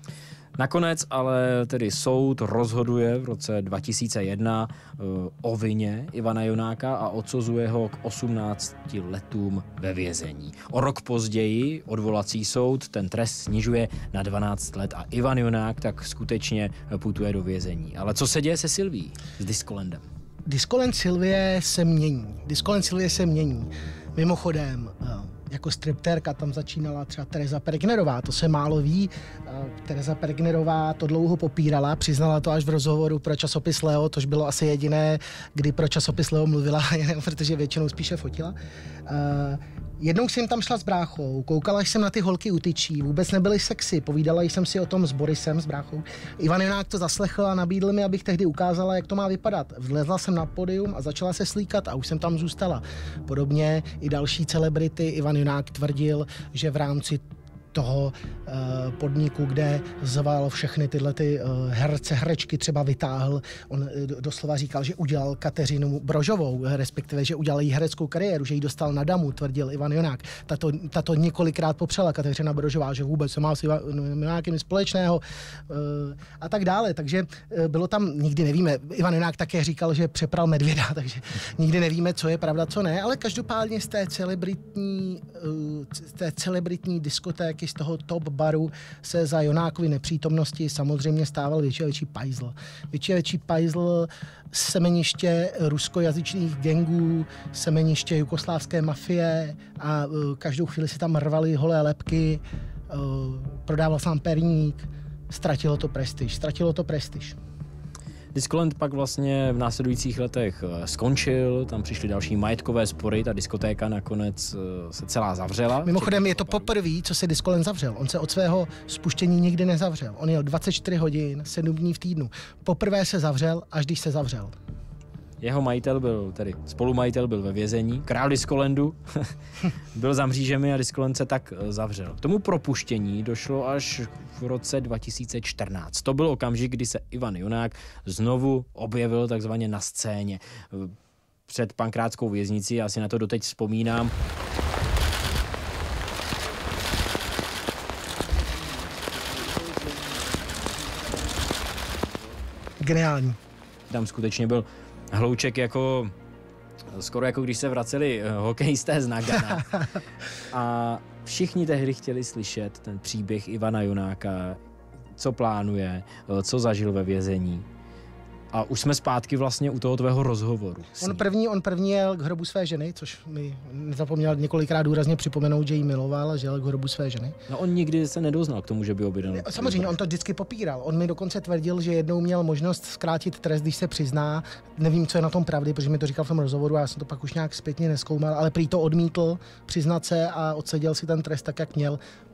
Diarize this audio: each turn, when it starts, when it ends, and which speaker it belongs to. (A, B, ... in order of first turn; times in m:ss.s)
0:00.6-0:20.0 A
0:20.5-0:38.6 B
0:39.1-1:47.4 B
1:48.4-1:56.7 A
1:55.8-2:04.6 B
2:05.4-2:09.3 A
2:09.9-2:21.0 A
2:21.5-2:24.1 A
2:32.8-2:33.4 B
2:33.9-2:36.1 A
2:36.9-2:39.8 A
2:40.5-2:44.6 A
2:45.2-2:47.7 A
2:48.5-2:51.2 A
2:51.0-2:57.4 B
2:57.5-3:00.0 A
2:59.3-3:12.0 B